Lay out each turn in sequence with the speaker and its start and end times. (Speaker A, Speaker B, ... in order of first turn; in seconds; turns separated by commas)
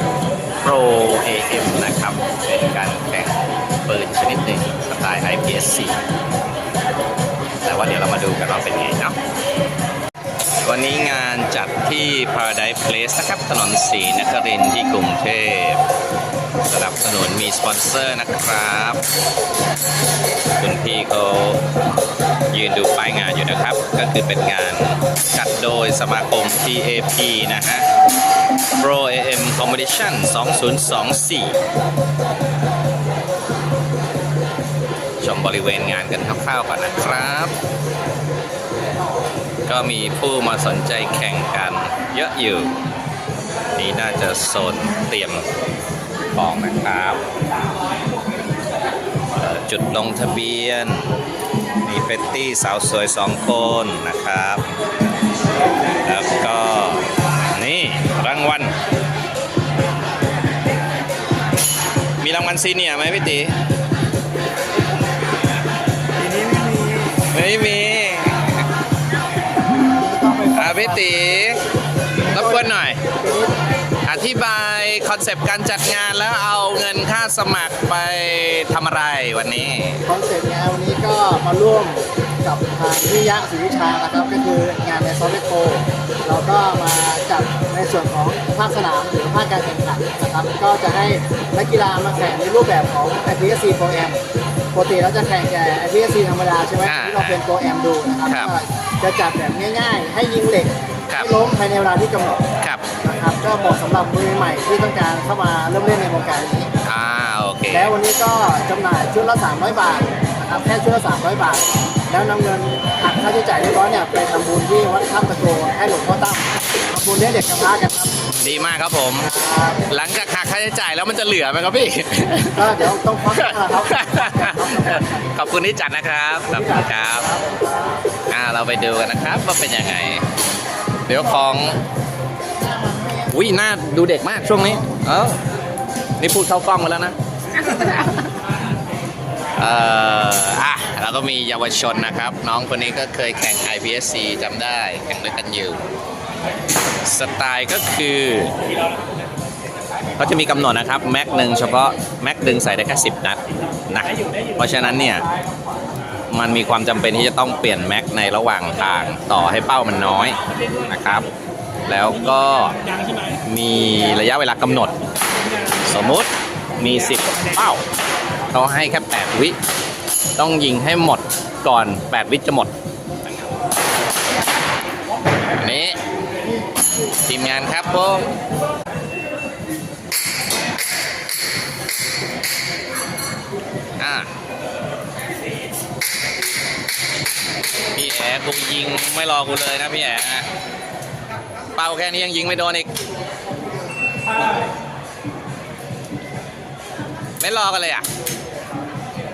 Speaker A: 0.6-6.0, Speaker A: 7.6-9.2, Speaker A: 10.6-15.8, Speaker A: 16.7-19.0, Speaker A: 20.6-21.6, Speaker A: 22.5-27.9, Speaker A: 28.8-31.6, Speaker A: 35.2-37.5, Speaker A: 39.7-42.7, Speaker A: 43.8-45.5, Speaker A: 46.3-47.2, Speaker A: 49.4-51.1, Speaker A: 51.8-54.6, Speaker A: 56.0-58.8, Speaker A: 62.2-63.5, Speaker B: 66.3-67.1, Speaker A: 67.3-68.5, Speaker B: 69.9-71.0, Speaker A: 70.5-71.6, Speaker A: 72.3-73.0, Speaker B: 72.3-72.7, Speaker B: 73.2-73.5, Speaker A: 74.0-80.0, Speaker B: 80.0-94.2, Speaker B: 94.7-102.4, Speaker A: 96.8-97.4, Speaker A: 98.3-98.5, Speaker A: 101.1-101.4, Speaker B: 103.0-106.7, Speaker A: 106.8-107.9, Speaker B: 107.7-118.2, Speaker A: 118.4-119.3, Speaker B: 119.2-119.8, Speaker A: 119.9-122.7, Speaker B: 122.5-125.3, Speaker A: 123.3-127.3, Speaker B: 126.5-127.9, Speaker A: 128.3-130.2, Speaker A: 131.1-131.8, Speaker A: 133.3-135.4, Speaker A: 136.2-137.2, Speaker A: 137.7-138.1, Speaker A: 139.6-145.8, Speaker A: 147.0-148.5, Speaker A: 150.2-155.3, Speaker A: 156.3-161.3, Speaker A: 161.9-162.8, Speaker A: 163.4-164.9, Speaker A: 165.8-167.8, Speaker A: 168.5-169.6, Speaker A: 170.4-172.7, Speaker A: 175.6-176.0, Speaker A: 177.2-178.3, Speaker A: 184.0-184.3, Speaker A: 187.9-190.5, Speaker A: 191.8-192.9, Speaker A: 197.4-198.1